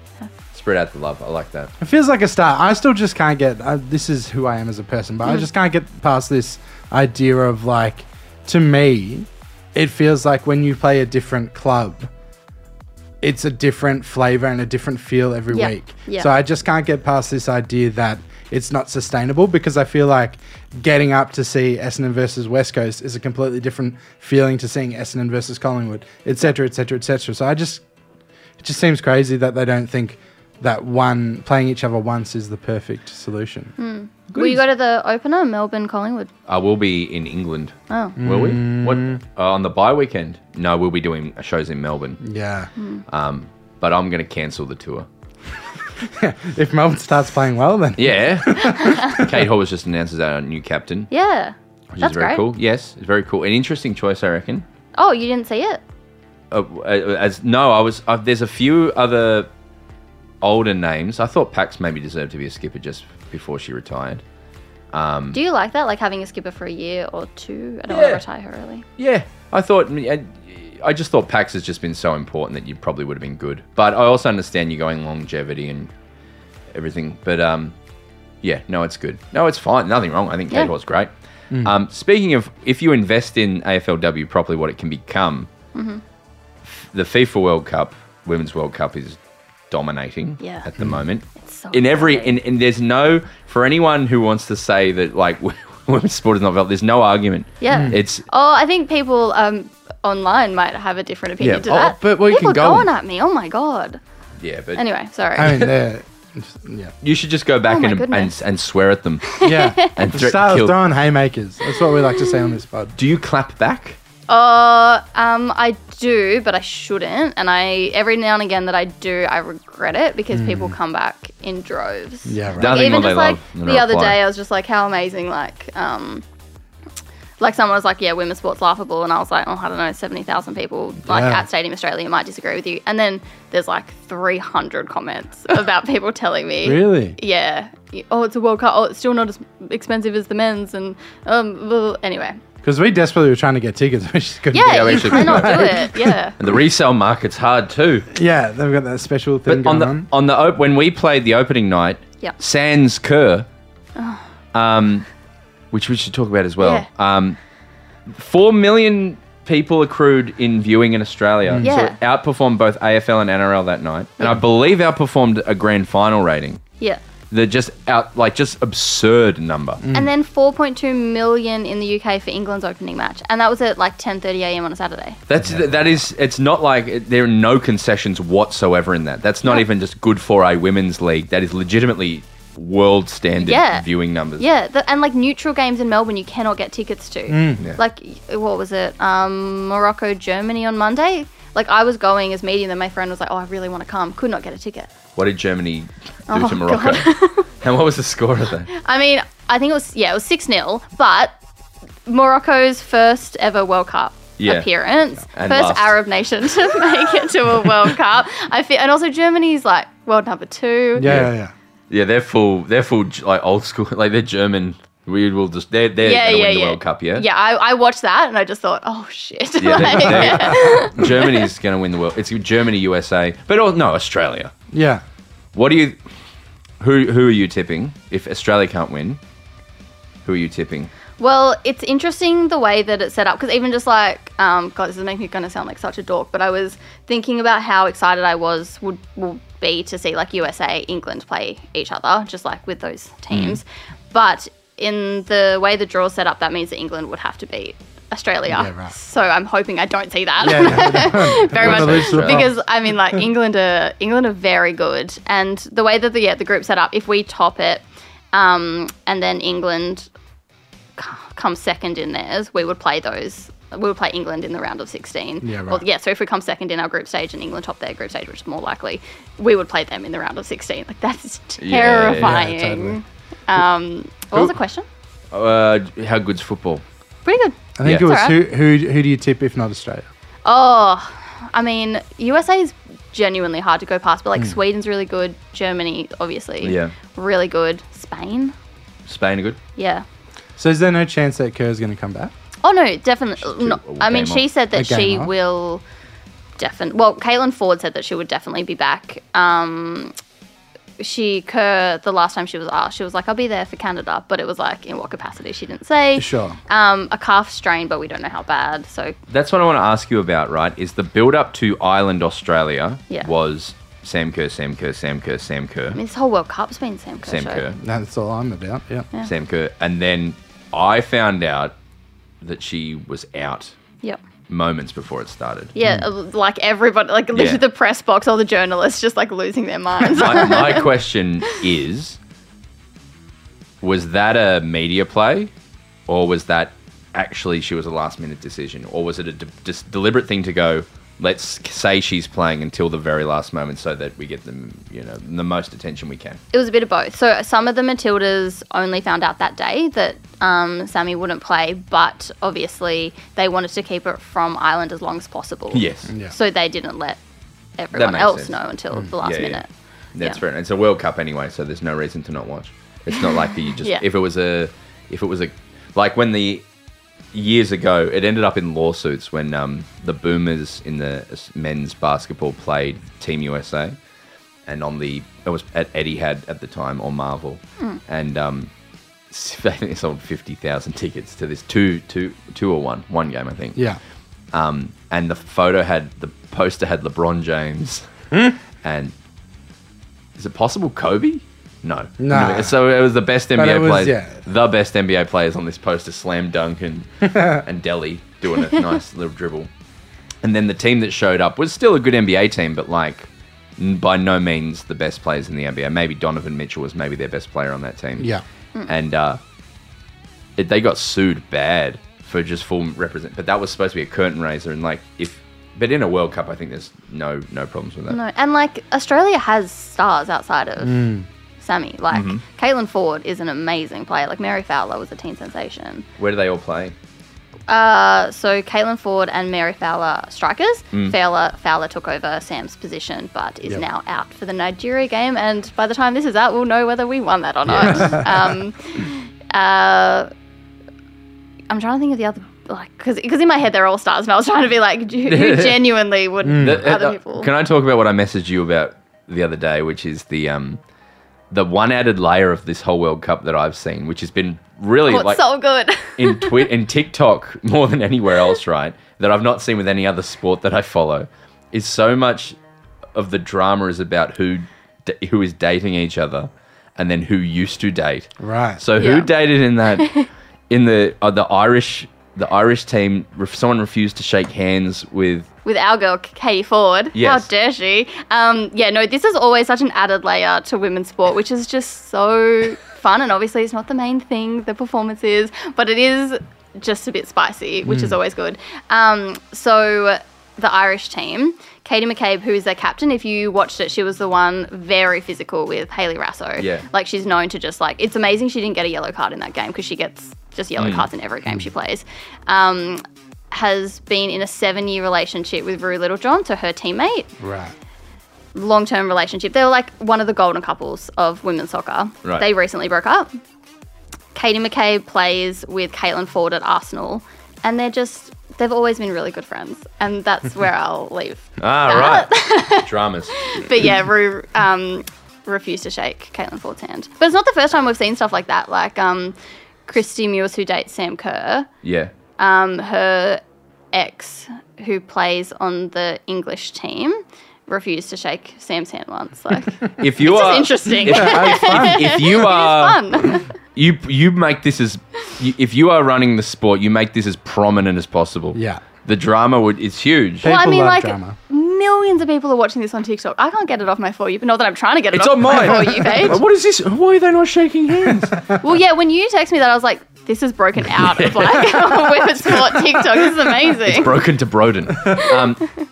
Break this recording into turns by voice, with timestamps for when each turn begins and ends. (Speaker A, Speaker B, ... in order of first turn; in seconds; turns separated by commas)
Speaker A: 0.5-1.7, Speaker B: 1.8-12.1, Speaker B: 13.2-27.8, Speaker C: 15.5-16.3, Speaker B: 28.6-33.7, Speaker C: 33.8-36.3, Speaker A: 34.3-34.6, Speaker A: 36.5-42.2, Speaker C: 37.9-38.2, Speaker B: 38.2-39.2, Speaker B: 42.2-42.7, Speaker C: 42.8-43.0, Speaker A: 43.1-45.1, Speaker B: 46.0-49.4, Speaker A: 48.0-51.1, Speaker C: 48.6-49.2, Speaker C: 51.1-52.4, Speaker A: 52.0-54.6, Speaker C: 55.0-55.8, Speaker A: 56.5-59.5, Speaker A: 60.4-64.2, Speaker A: 64.9-65.4, Speaker C: 65.3-68.8, Speaker A: 67.9-68.2, Speaker A: 69.0-75.9, Speaker A: 76.7-77.8, Speaker A: 78.4-85.5, Speaker C: 85.7-86.0, Speaker A: 86.7-89.2, Speaker A: 89.7-98.3, Speaker C: 90.4-90.7, Speaker C: 91.3-92.4, Speaker C: 97.6-104.0, Speaker B: 97.7-98.0, Speaker A: 101.4-102.9, Speaker A: 104.4-104.8, Speaker C: 104.8-105.7, Speaker B: 105.4-106.9, Speaker A: 105.4-105.7, Speaker A: 107.0-110.8, Speaker C: 107.7-108.3, Speaker C: 109.3-110.0, Speaker B: 109.4-113.0, Speaker C: 111.8-112.5, Speaker A: 113.0-114.0, Speaker C: 114.3-126.2, Speaker B: 120.3-120.8, Speaker B: 122.3-122.8, Speaker A: 122.6-124.2, Speaker C: 127.4-142.4, Speaker B: 131.1-131.5, Speaker B: 136.6-137.2, Speaker B: 142.6-146.2, Speaker C: 144.5-146.4, Speaker A: 144.6-148.1, Speaker B: 148.1-150.1, Speaker A: 149.5-153.5, Speaker C: 154.0-154.2, Speaker A: 154.5-155.1, Speaker A: 155.7-157.4, Speaker C: 156.6-156.9, Speaker A: 158.1-166.6, Speaker C: 161.6-162.0, Speaker A: 167.3-169.8, Speaker B: 169.8-170.1, Speaker C: 169.9-175.2, Speaker A: 175.3-184.5, Speaker B: 175.4-175.7, Speaker C: 183.4-194.9, Speaker B: 187.3-187.6, Speaker A: 195.2-198.7, Speaker C: 196.3-197.5, Speaker C: 198.7-201.3, Speaker C: 202.1-211.1, Speaker A: 204.4-204.7, Speaker A: 205.3-206.0, Speaker B: 211.0-211.5, Speaker A: 211.0-211.3, Speaker A: 211.9-217.2, Speaker C: 216.0-221.5, Speaker A: 219.6-224.5, Speaker B: 224.7-225.0, Speaker A: 225.6-226.0, Speaker A: 226.8-229.2, Speaker A: 230.2-230.9, Speaker C: 231.2-260.1, Speaker A: 243.3-243.6, Speaker B: 248.5-248.9, Speaker B: 250.4-252.6, Speaker A: 251.4-252.5, Speaker C: 261.0-274.9, Speaker B: 265.4-265.8, Speaker A: 271.6-272.4, Speaker B: 272.2-273.0, Speaker A: 275.3-276.8, Speaker C: 277.2-278.4, Speaker B: 277.8-280.1, Speaker A: 277.8-278.1, Speaker C: 280.4-288.5, Speaker A: 286.6-286.9, Speaker A: 289.1-289.6, Speaker C: 289.8-290.0, Speaker B: 290.6-292.3, Speaker C: 292.6-295.8, Speaker A: 293.4-294.5, Speaker B: 294.7-295.3, Speaker C: 296.6-300.1, Speaker C: 301.0-309.2, Speaker B: 306.2-306.6, Speaker A: 309.3-316.0, Speaker C: 315.9-317.6, Speaker A: 317.2-317.8, Speaker B: 317.8-319.1, Speaker A: 319.2-321.8, Speaker A: 322.4-323.8, Speaker A: 324.5-325.7, Speaker C: 325.8-330.9, Speaker A: 327.3-327.6, Speaker A: 330.1-332.2, Speaker A: 333.8-335.5, Speaker A: 336.1-346.4, Speaker C: 346.5-357.2, Speaker A: 355.7-356.1, Speaker B: 356.1-356.4, Speaker C: 357.8-359.7, Speaker A: 357.9-358.6, Speaker A: 359.2-366.6, Speaker A: 367.3-374.0, Speaker A: 374.7-378.7, Speaker A: 379.3-383.8, Speaker A: 384.5-388.1, Speaker A: 388.8-389.1, Speaker A: 390.4-399.7, Speaker B: 392.2-392.8, Speaker B: 393.6-394.4, Speaker B: 397.3-397.6, Speaker A: 400.4-408.3, Speaker A: 408.9-409.4, Speaker A: 410.6-418.2, Speaker C: 418.1-426.1, Speaker B: 420.8-421.2, Speaker A: 422.1-422.4, Speaker A: 426.2-426.9, Speaker C: 427.7-440.3, Speaker A: 437.7-438.1, Speaker B: 437.9-438.2, Speaker C: 441.7-447.5, Speaker A: 445.3-445.8, Speaker B: 446.4-446.8, Speaker A: 446.5-450.8, Speaker A: 451.5-455.4, Speaker C: 455.1-456.7, Speaker A: 456.2-462.6, Speaker A: 463.1-470.1, Speaker B: 468.4-468.8, Speaker C: 469.0-469.3, Speaker C: 469.9-470.3, Speaker A: 470.7-475.5, Speaker C: 475.6-507.3, Speaker A: 477.1-477.5, Speaker B: 487.9-488.1, Speaker A: 496.6-496.9, Speaker A: 500.8-501.1, Speaker B: 507.4-507.7, Speaker C: 508.6-513.3, Speaker C: 514.4-529.4, Speaker A: 521.6-523.4, Speaker C: 529.9-531.7, Speaker A: 531.8-532.1, Speaker C: 532.4-533.4, Speaker C: 533.9-543.5, Speaker A: 540.0-543.0, Speaker B: 541.1-542.2, Speaker A: 543.8-550.5, Speaker B: 548.5-548.8, Speaker B: 550.4-551.4, Speaker C: 550.4-556.4, Speaker A: 555.1-558.5, Speaker C: 558.6-564.2, Speaker A: 561.0-565.7, Speaker C: 565.1-565.5